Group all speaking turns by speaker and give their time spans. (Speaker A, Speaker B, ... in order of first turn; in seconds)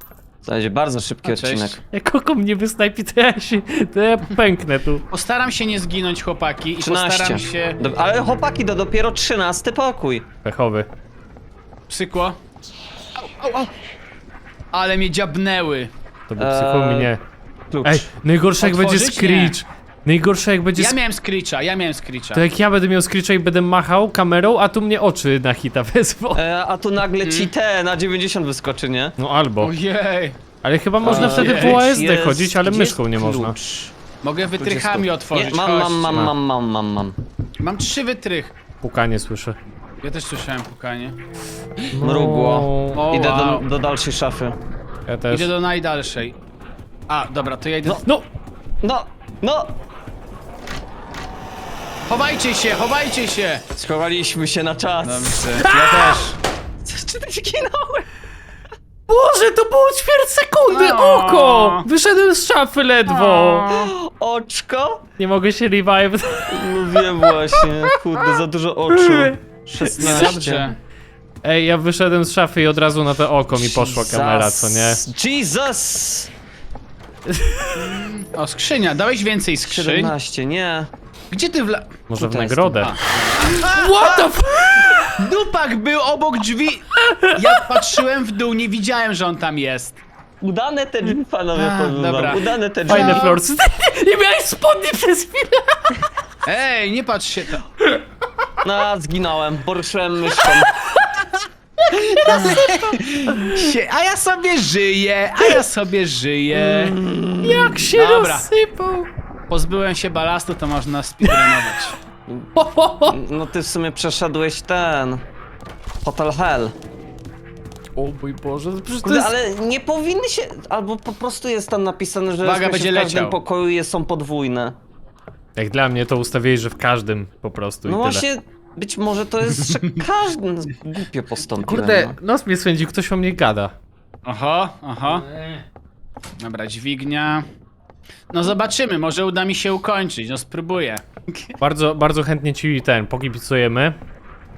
Speaker A: 0.4-1.8, 6.8-10.2, 16.4-17.1, 17.7-18.0, 26.3-29.2, 31.0-33.9, 34.6-37.1, 42.0-44.6, 48.8-49.7, 53.8-55.4, 56.8-58.1, 63.7-65.0, 66.5-70.7, 73.5-76.3, 79.6-80.9, 82.2-82.9, 90.4-93.3, 98.6-100.7, 106.5-107.8, 112.3-112.5, 113.0-115.2, 116.0-116.7, 119.0-124.8, 127.8-132.2
Speaker B: 1.2-1.8, 5.1-7.8, 11.9-12.4, 13.2-13.7, 14.7-15.9, 18.6-19.6, 20.8-22.4, 27.2-27.5, 29.6-30.4, 31.0-31.9, 34.2-36.3, 37.6-38.5, 40.0-41.2, 42.9-43.6, 45.3-46.4, 47.1-48.0, 52.1-53.6, 55.0-56.4, 60.7-61.9, 63.1-63.9, 69.8-70.8, 77.7-80.1, 81.3-82.0, 82.8-90.0, 91.5-93.4, 96.5-97.6, 101.9-107.0, 107.9-108.5, 109.5-112.0, 122.4-123.4, 129.6-129.9, 134.2-135.2, 136.4-137.4, 138.3-141.5
Speaker C: 1.9-5.0, 10.4-10.9, 16.3-17.2, 17.8-21.0, 22.3-26.4, 29.2-29.7, 30.6-33.5, 38.8-39.6, 41.9-43.0, 45.1-45.5, 55.6-56.2, 59.1-63.7, 65.2-68.4, 68.9-69.4, 70.0-70.4, 71.4-75.0, 77.4-77.7, 82.1-82.9, 83.5-85.3, 87.1-87.3, 92.9-96.0, 102.2-103.6, 107.4-109.1, 111.2-111.5, 112.5-113.2, 118.0-119.3, 125.6-128.2, 131.6-133.7, 135.2-135.6, 141.6-143.9